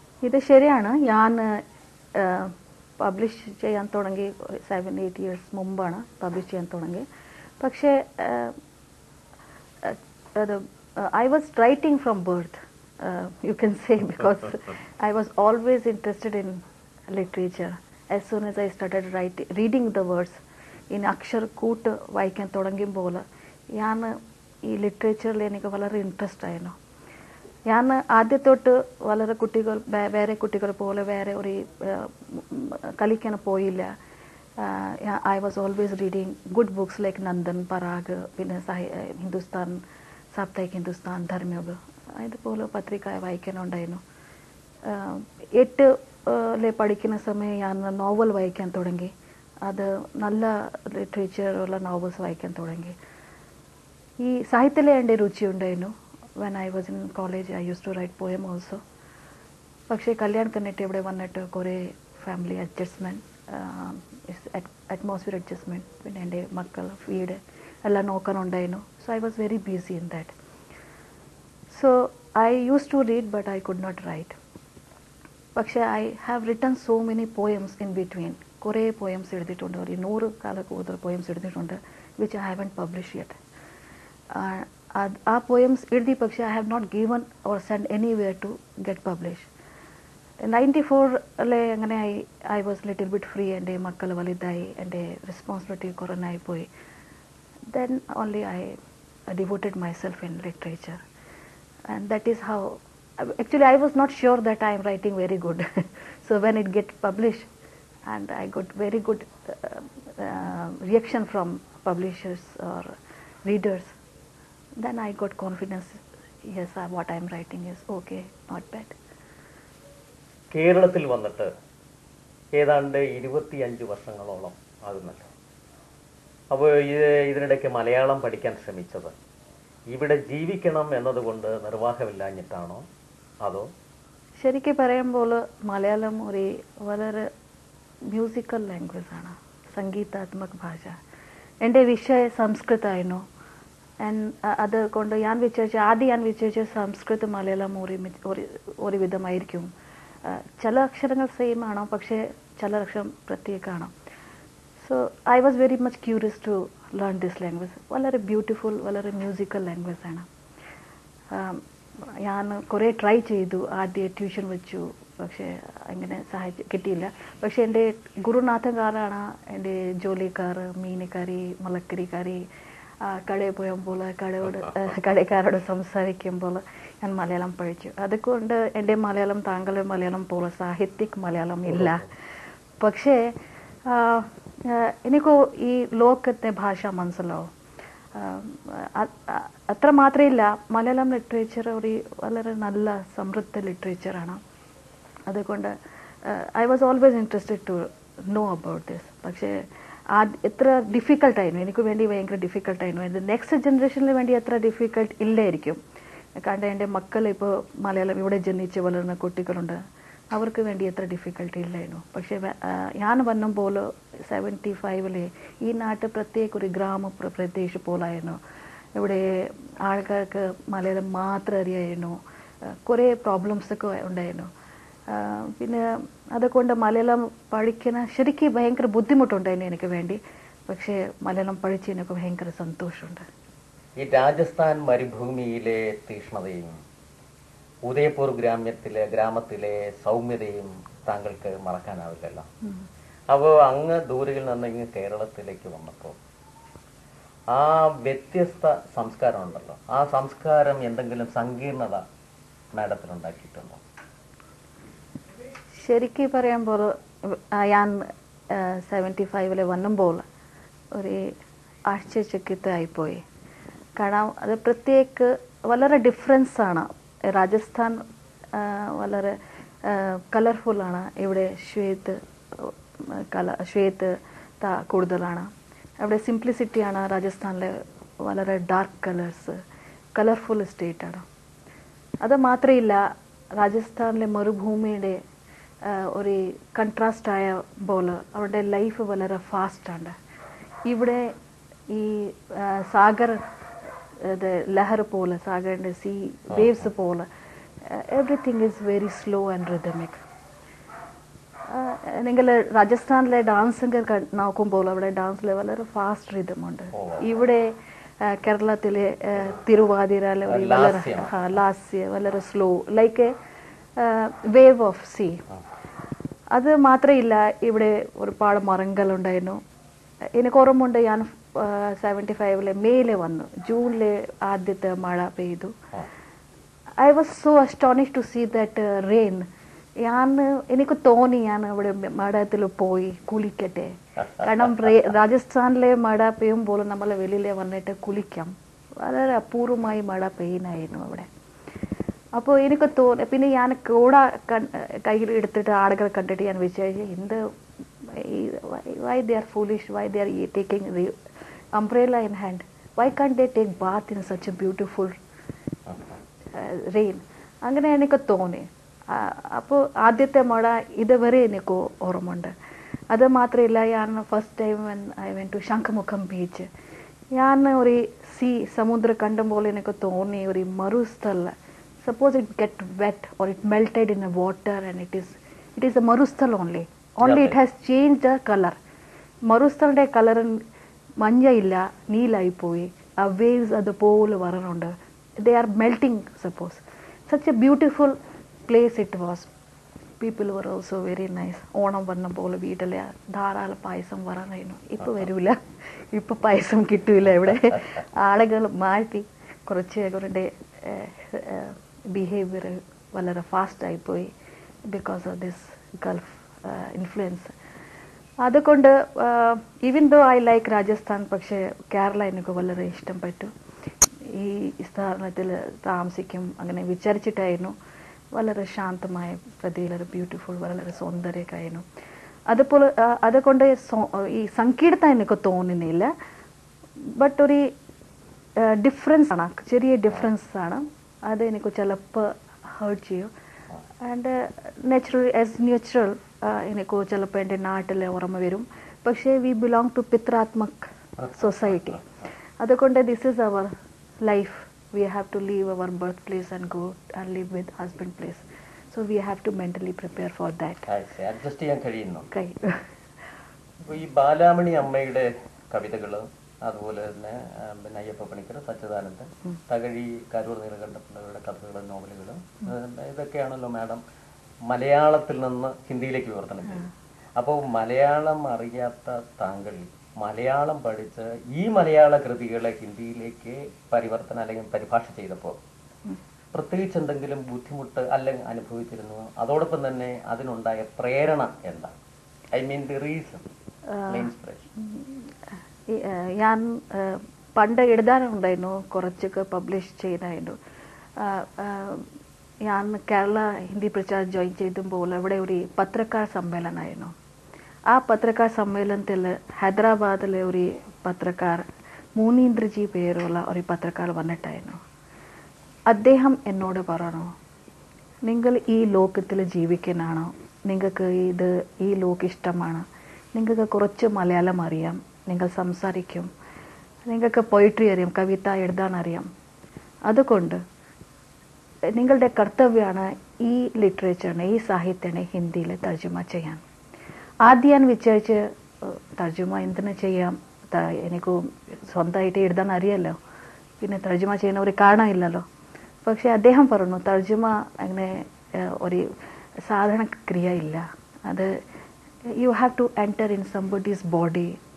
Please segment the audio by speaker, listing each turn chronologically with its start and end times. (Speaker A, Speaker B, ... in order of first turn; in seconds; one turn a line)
Speaker A: 0.2-1.5
Speaker A: 2.1-7.0
Speaker A: 7.6-8.6
Speaker A: 9.8-23.2
Speaker A: 23.8-26.7
Speaker A: 27.7-33.9
Speaker A: 34.6-39.8
Speaker A: 40.3-44.0
Speaker A: 44.9-49.1
Speaker A: 49.6-52.9
Speaker A: 54.2-58.8
Speaker A: 59.9-70.3
Speaker A: 71.7-74.3
Speaker A: 75.5-83.4
Speaker A: 84.3-89.5
Speaker A: 90.4-96.7
Speaker A: 97.7-98.8
Speaker A: 99.3-101.0
Speaker A: 101.9-107.5
Speaker A: 108.1-112.9
Speaker A: 113.4-113.9
Speaker A: 114.8-119.0
Speaker B: 120.5-121.5
Speaker B: 122.5-125.3
Speaker B: 126.5-129.1
Speaker B: 129.9-132.8
Speaker B: 133.4-133.7
Speaker A: 134.4-137.3
Speaker A: 138.1-141.0
Speaker A: 141.6-143.2
Speaker A: 144.0-149.7
Speaker A: 150.2-153.9
Speaker A: 154.8-160.3
Speaker A: 161.3-161.6
Speaker A: 162.2-172.4
Speaker A: 173.0-182.1
Speaker B: 181.7-182.0
Speaker A: 182.8-183.3
Speaker A: 183.8-187.5
Speaker A: 188.1-194.4
Speaker A: 195.3-195.7
Speaker A: 196.2-205.8
Speaker A: 206.4-209.8
Speaker A: 210.3-218.4
Speaker A: 218.9-224.5
Speaker A: 225.1-233.2
Speaker B: 234.0-236.7
Speaker B: 237.8-242.5
Speaker B: 243.3-246.2
Speaker B: 247.5-252.0
Speaker B: 252.7-253.8
Speaker A: 255.8-260.2
Speaker A: 260.9-261.3
Speaker A: 261.9-263.2
Speaker A: 264.0-268.0
Speaker A: 268.5-275.5
Speaker A: 276.0-279.6
Speaker A: 280.1-281.2
Speaker A: 282.2-283.0
Speaker A: 283.6-285.2
Speaker A: 285.8-290.1
Speaker A: 290.9-291.3
Speaker A: 291.9-293.4
Speaker A: 294.2-297.3
Speaker B: 296.5-296.9
Speaker A: 297.9-300.2
Speaker A: 301.7-313.3
Speaker B: 306.9-307.3
Speaker B: 310.5-311.6
Speaker A: 314.0-315.4
Speaker A: 316.5-319.6
Speaker A: 320.4-325.7
Speaker A: 327.0-329.5
Speaker A: 330.0-341.3
Speaker A: 342.4-347.4
Speaker A: 348.0-351.1
Speaker A: 351.8-355.1
Speaker B: 355.9-356.2
Speaker A: 356.5-362.5
Speaker A: 363.1-366.7
Speaker A: 367.3-378.8
Speaker B: 377.2-377.6
Speaker A: 379.5-380.6
Speaker A: 381.2-388.1
Speaker A: 388.7-389.5
Speaker A: 390.2-395.6
Speaker A: 396.1-404.3
Speaker A: 404.9-407.5
Speaker A: 408.4-413.5
Speaker A: 414.3-417.7
Speaker A: 418.3-421.8
Speaker A: 422.5-426.1
Speaker A: 427.1-427.7
Speaker A: 428.6-433.3
Speaker A: 434.0-442.0
Speaker B: 441.2-442.0
Speaker A: 442.6-450.9
Speaker B: 450.9-452.3
Speaker A: 452.3-452.9
Speaker B: 453.8-464.0
Speaker B: 464.7-466.9
Speaker B: 467.4-475.6
Speaker B: 476.5-481.9
Speaker B: 482.5-483.4
Speaker A: 483.9-484.3
Speaker B: 484.1-484.6
Speaker A: 484.8-485.1
Speaker A: 485.9-490.6
Speaker A: 491.2-492.1
Speaker A: 492.6-497.1
Speaker A: 497.9-501.6
Speaker A: 502.2-504.8
Speaker A: 505.9-507.3
Speaker A: 508.2-516.3
Speaker A: 517.1-519.3
Speaker A: 520.1-520.6
Speaker A: 521.9-526.6
Speaker A: 527.4-533.1
Speaker A: 533.8-535.4
Speaker A: 536.0-539.0
Speaker A: 539.6-541.6
Speaker A: 542.4-544.6